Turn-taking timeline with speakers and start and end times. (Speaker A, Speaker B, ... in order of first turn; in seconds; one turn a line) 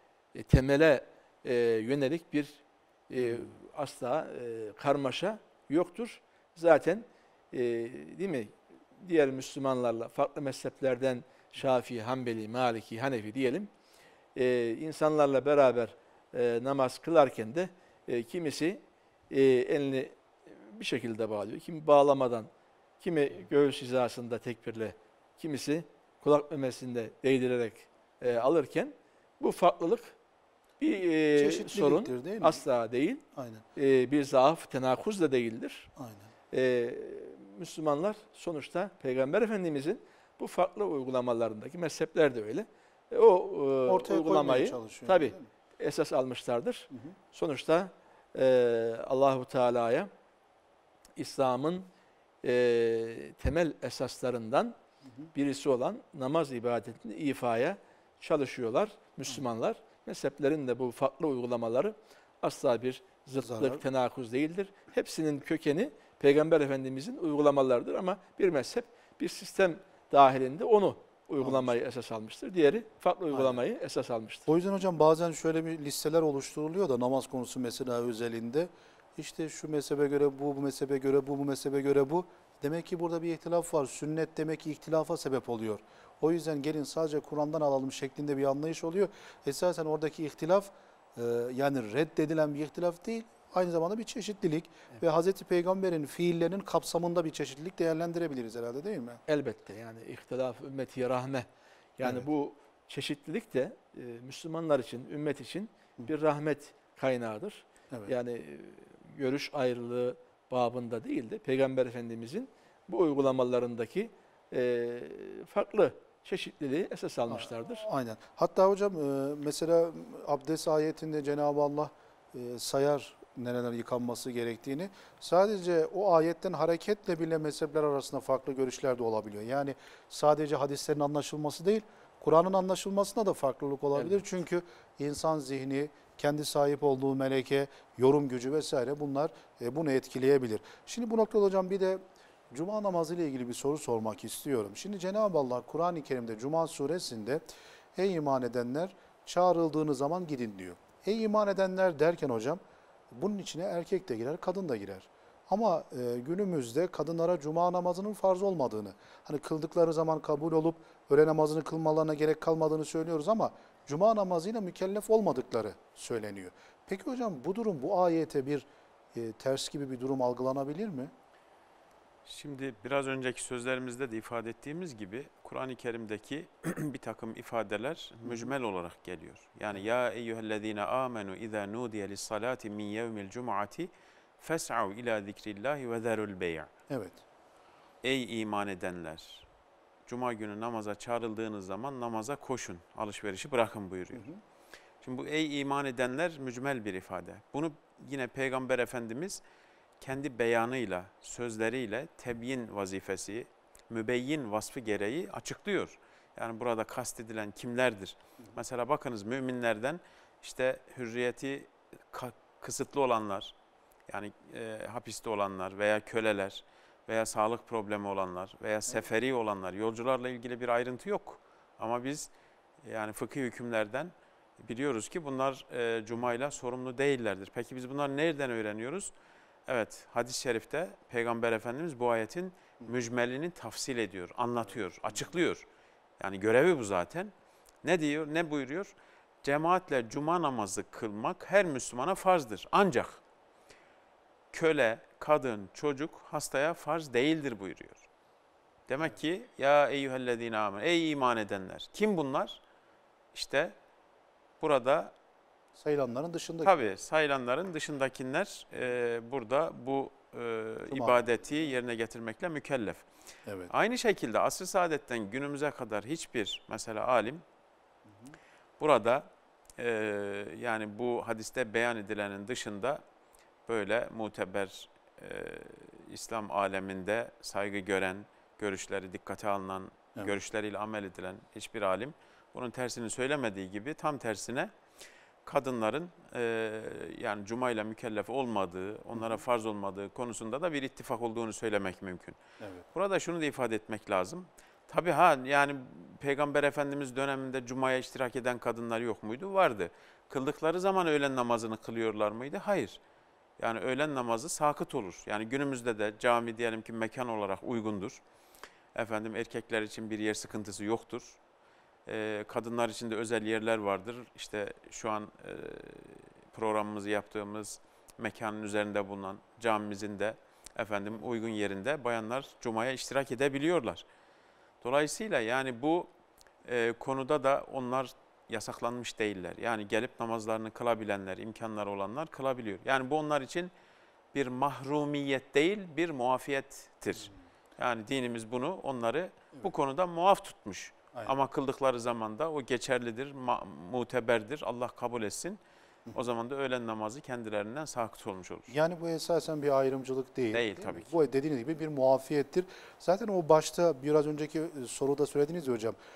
Speaker A: 0.3-13.7
Speaker B: 3.2-3.5
Speaker A: 14.3-22.5
Speaker A: 23.0-30.1
Speaker A: 30.8-35.9
Speaker B: 31.4-32.6
Speaker B: 33.3-33.6
Speaker B: 36.0-36.3
Speaker A: 36.5-50.1
Speaker B: 43.9-45.5
Speaker A: 51.2-51.9
Speaker A: 52.4-54.7
Speaker A: 55.3-74.5
Speaker B: 63.4-63.8
Speaker B: 71.4-71.7
Speaker B: 73.3-73.6
Speaker B: 74.5-99.2
Speaker A: 99.3-101.5
Speaker A: 102.0-117.8
Speaker B: 117.3-147.4
Speaker B: 147.9-171.1
Speaker C: 172.2-186.7
Speaker B: 178.2-178.5
Speaker B: 186.9-187.2
Speaker C: 188.0-189.4
Speaker C: 190.1-194.3
Speaker B: 194.1-194.4
Speaker C: 195.0-199.4
Speaker C: 200.0-213.5
Speaker C: 214.1-222.3
Speaker C: 222.8-229.1
Speaker C: 229.7-235.6
Speaker C: 236.2-237.3
Speaker C: 237.8-238.9
Speaker C: 239.4-243.2
Speaker C: 244.5-248.1
Speaker C: 248.9-252.6
Speaker C: 253.3-253.7
Speaker C: 254.6-255.1
Speaker B: 255.7-256.7
Speaker C: 256.6-263.1
Speaker B: 260.9-261.3
Speaker B: 263.4-263.7
Speaker C: 263.7-267.4
Speaker B: 268.1-268.4
Speaker C: 268.8-273.0
Speaker C: 273.7-284.7
Speaker C: 285.4-292.4
Speaker B: 292.6-292.9
Speaker C: 292.9-303.0
Speaker C: 303.6-308.2
Speaker C: 308.9-311.4
Speaker C: 312.1-324.0
Speaker C: 324.8-326.1
Speaker C: 326.6-333.7
Speaker C: 334.3-345.6
Speaker C: 346.1-348.7
Speaker B: 348.7-356.0
Speaker C: 350.5-351.1